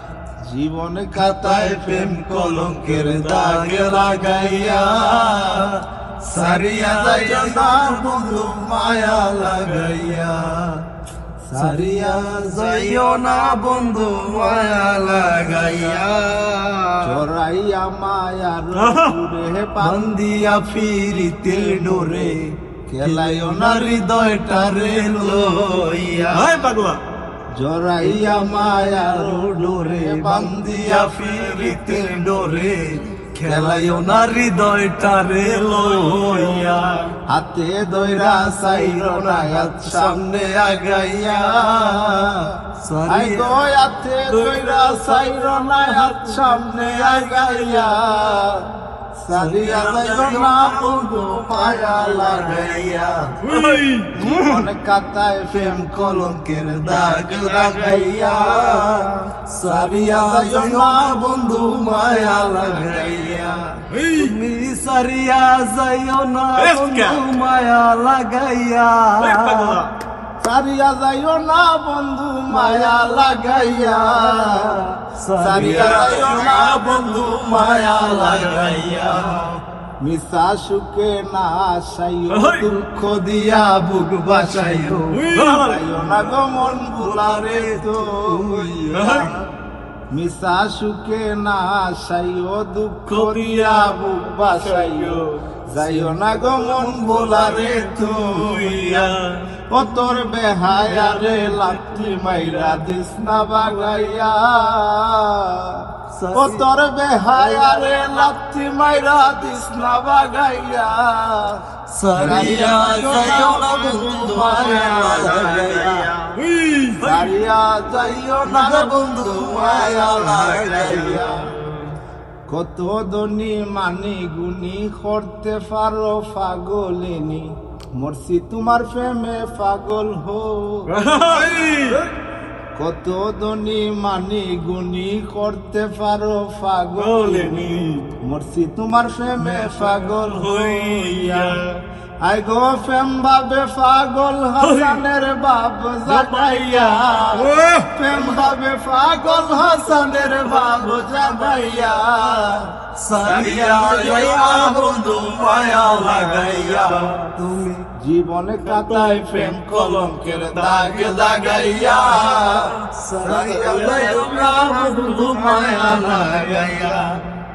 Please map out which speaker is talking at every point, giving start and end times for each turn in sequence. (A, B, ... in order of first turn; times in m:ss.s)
0:00.5-0:05.6 A
0:01.2-0:10.8 B
0:06.3-0:08.5 A
0:11.4-0:13.3 A
0:11.5-0:17.2 B
0:17.0-0:20.2 A
0:18.8-0:19.2 C
0:19.8-0:22.4 B
0:21.5-0:22.0 A
0:22.9-0:24.2 A
0:23.0-0:26.6 B
0:24.9-0:25.4 A
0:26.3-0:27.0 C
0:27.5-0:32.5 A
0:28.0-0:37.0 B
0:33.4-0:34.4 A
0:35.4-0:37.1 C
0:37.3-0:40.4 A
0:38.3-0:42.3 B
0:41.1-0:42.5 A
0:42.8-0:43.6 B
0:43.1-0:53.1 A
0:44.3-0:47.2 C
0:49.3-0:53.8 B
0:53.4-0:54.5 C
0:54.1-1:03.8 A
0:56.2-1:09.8 B
1:03.9-1:04.3 C
1:06.6-1:07.2 C
1:09.2-1:09.9 C
1:10.4-1:14.9 A
1:12.5-1:13.3 B
1:14.0-1:19.5 B
1:15.4-1:19.3 A
1:15.6-1:16.8 C
1:18.2-1:18.8 C
1:20.0-1:29.4 A
1:22.3-1:22.7 C
1:24.2-1:25.3 B
1:25.2-1:26.0 C
1:26.0-1:29.3 B
1:28.9-1:29.3 C
1:30.1-1:39.2 A
1:33.1-1:34.0 C
1:34.5-1:35.4 C
1:36.9-1:37.2 B
1:37.2-1:39.4 C
1:39.7-1:45.8 A
1:40.8-1:42.8 C
1:46.1-1:46.6 B
1:46.4-1:51.6 A
1:51.9-1:56.1 B
1:52.2-1:56.1 A
1:54.9-1:55.6 C
1:56.4-1:57.3 C
1:57.0-2:01.4 A
1:58.4-2:01.3 B
2:00.4-2:01.6 C
2:02.5-2:10.9 A
2:10.9-2:12.1 C
2:12.8-2:21.6 A
2:17.0-2:18.1 C
2:19.5-2:21.7 C
2:22.2-2:32.7 A
2:24.6-2:25.0 C
2:26.1-2:28.4 C
2:33.0-2:37.9 B
2:33.2-2:37.3 C
2:33.3-2:34.5 A
2:38.0-2:46.6 A
2:38.6-2:42.7 C
2:42.9-2:47.1 B
2:43.3-2:47.1 C